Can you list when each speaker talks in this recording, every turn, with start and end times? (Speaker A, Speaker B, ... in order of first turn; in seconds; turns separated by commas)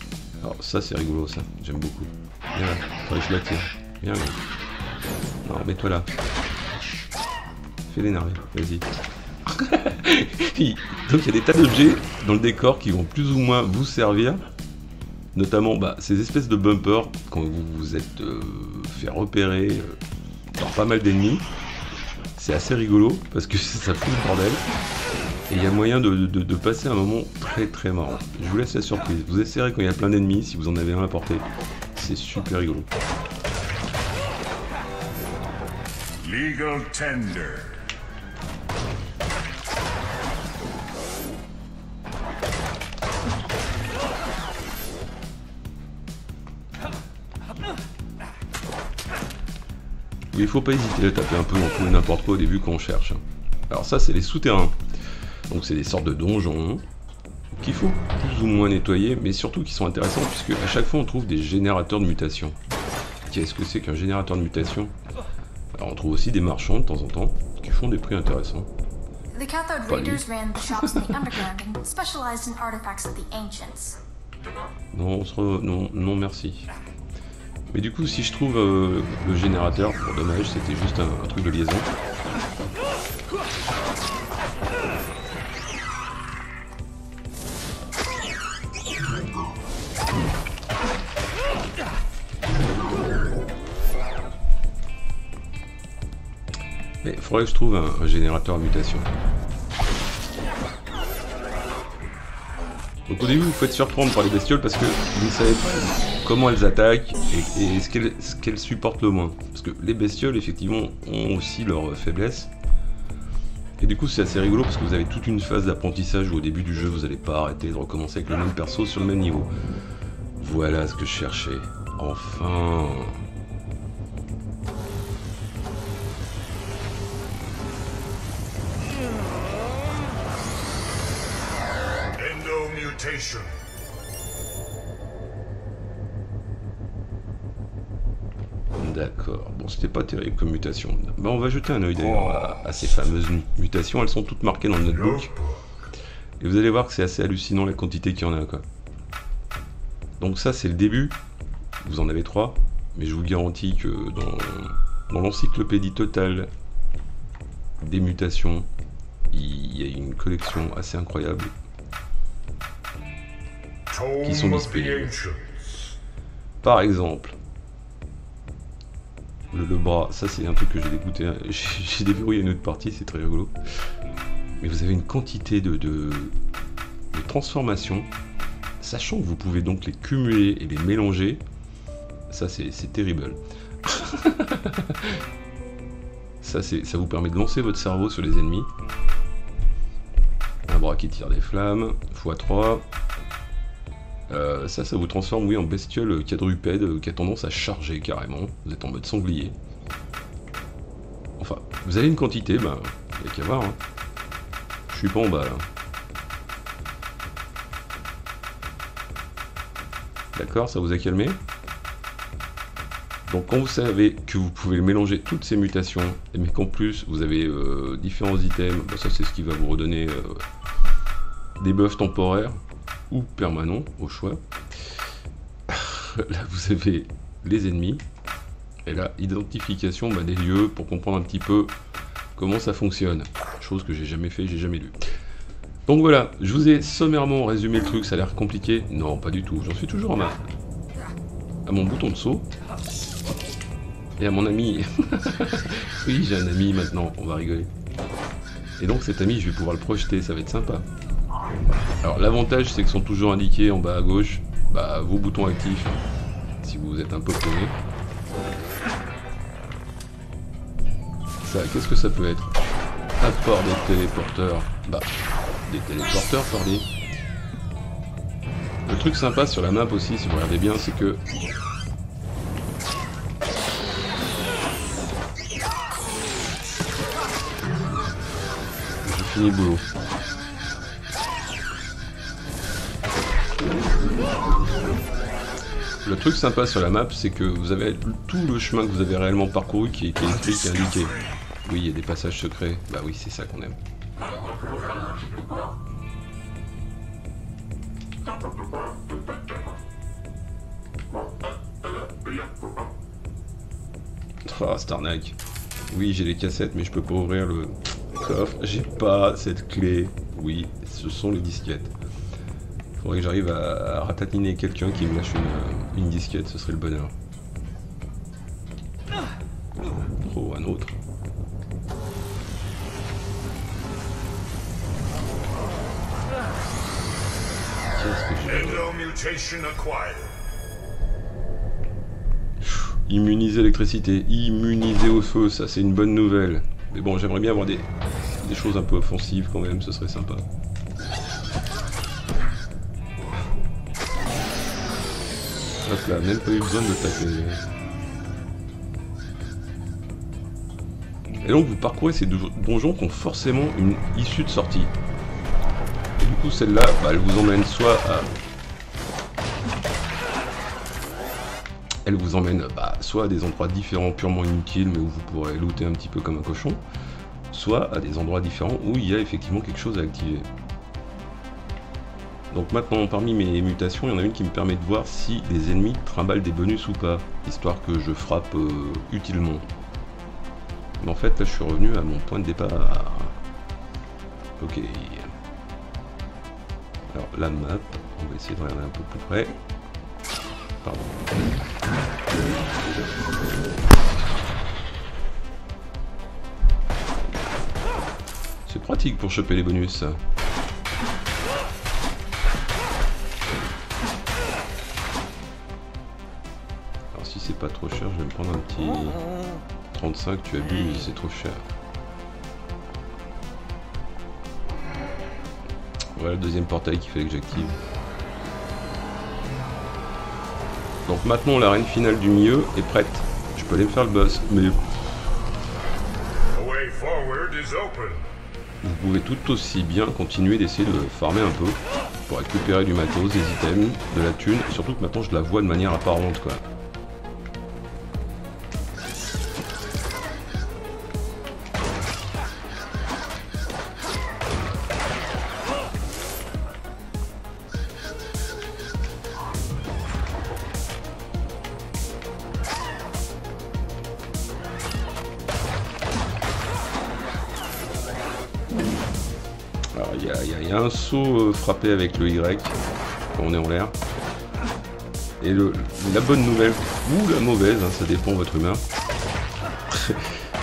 Speaker A: 0.4-4.4, Speaker A: 5.4-6.1, Speaker A: 7.9-8.9, Speaker A: 9.4-14.4, Speaker A: 15.3-20.0, Speaker A: 20.6-21.5, Speaker A: 22.4-24.6, Speaker A: 25.5-32.9, Speaker B: 36.2-37.8, Speaker A: 50.3-54.8, Speaker A: 55.5-56.8, Speaker A: 57.5-62.6, Speaker A: 63.2-64.9, Speaker A: 65.8-68.7, Speaker C: 69.3-74.0, Speaker A: 69.9-71.4, Speaker A: 74.9-76.7, Speaker A: 77.7-81.9, Speaker A: 97.0-99.1, Speaker A: 103.1-112.5, Speaker A: 113.8-119.5, Speaker A: 120.4-123.2, Speaker B: 132.2-133.5, Speaker A: 138.8-145.3, Speaker B: 142.2-142.5, Speaker B: 144.9-145.6, Speaker A: 146.4-148.7, Speaker A: 150.2-151.2, Speaker A: 151.8-156.5, Speaker A: 157.8-158.7, Speaker A: 159.3-161.5, Speaker B: 163.9-165.9, Speaker A: 164.2-165.1, Speaker A: 166.6-167.4, Speaker A: 169.5-173.5, Speaker A: 174.6-176.3, Speaker A: 177.1-178.1, Speaker A: 178.8-181.4, Speaker A: 182.3-185.2, Speaker A: 186.4-188.7, Speaker A: 190.7-192.9, Speaker A: 194.3-199.6, Speaker A: 201.4-203.8, Speaker A: 204.9-205.6, Speaker A: 210.3-211.4, Speaker A: 213.3-220.4, Speaker A: 221.6-224.4, Speaker A: 225.7-228.0, Speaker A: 228.8-231.7, Speaker A: 232.3-234.9, Speaker A: 235.9-240.4, Speaker A: 241.7-242.5, Speaker A: 244.2-247.7, Speaker A: 248.8-250.8, Speaker A: 252.0-256.0, Speaker A: 256.6-257.8, Speaker A: 261.4-262.6, Speaker A: 263.2-265.1, Speaker A: 265.6-266.9, Speaker A: 268.9-271.2, Speaker A: 279.0-279.9, Speaker A: 286.0-293.8, Speaker B: 290.5-291.2, Speaker A: 304.4-305.4, Speaker A: 305.9-311.9, Speaker A: 313.0-317.1, Speaker A: 320.2-320.9, Speaker A: 327.9-328.9, Speaker B: 328.4-330.4, Speaker A: 332.6-340.5, Speaker A: 345.8-347.6, Speaker A: 351.4-354.9, Speaker A: 356.2-358.3, Speaker A: 362.0-366.8, Speaker A: 367.5-370.5, Speaker A: 372.5-379.6, Speaker A: 381.0-383.4, Speaker A: 384.6-385.3, Speaker A: 387.1-389.6, Speaker A: 390.8-391.4, Speaker A: 398.6-400.2, Speaker A: 407.1-409.3, Speaker A: 409.9-411.6, Speaker A: 416.1-417.8, Speaker A: 421.1-424.8, Speaker B: 426.5-428.2, Speaker A: 428.8-436.6, Speaker A: 459.9-462.8, Speaker A: 463.3-463.9, Speaker A: 465.4-468.8, Speaker A: 469.9-470.3